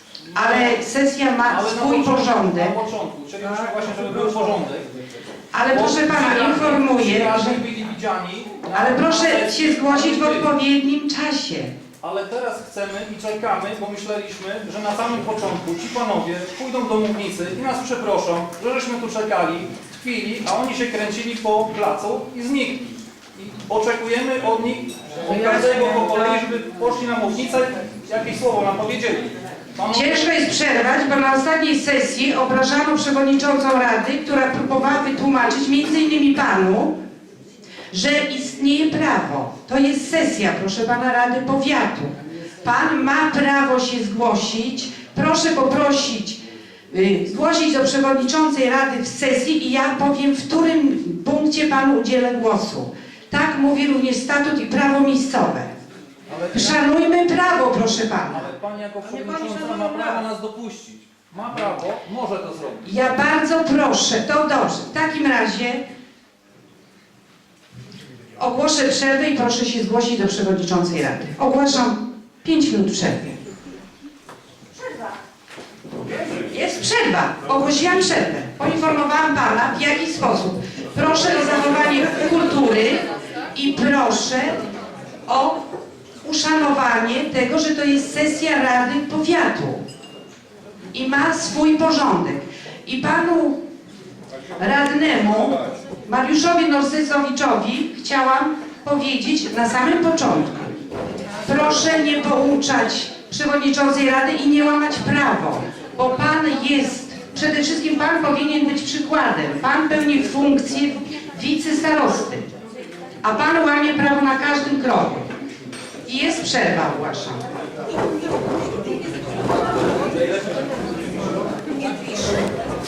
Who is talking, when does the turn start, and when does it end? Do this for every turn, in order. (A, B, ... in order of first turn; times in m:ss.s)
0:00.3-0:00.8 A
0:00.3-0:02.8 B
0:01.4-0:04.9 A
0:05.5-0:07.6 B
0:05.7-0:10.5 A
0:08.7-0:11.7 B
0:12.0-0:30.3 A
0:29.9-0:37.0 B
0:37.9-0:55.7 B
0:56.3-0:56.8 A
0:56.5-0:58.5 B
0:58.3-1:02.8 A
0:59.1-1:00.2 B
1:02.8-1:05.8 B
1:08.4-1:13.4 B
1:16.4-1:24.6 B
1:25.3-1:25.6 B
1:26.2-1:29.8 B
1:30.9-1:33.6 B
1:34.6-1:40.8 B
1:41.4-1:52.5 B
1:53.2-1:55.3 B
1:56.0-1:57.4 B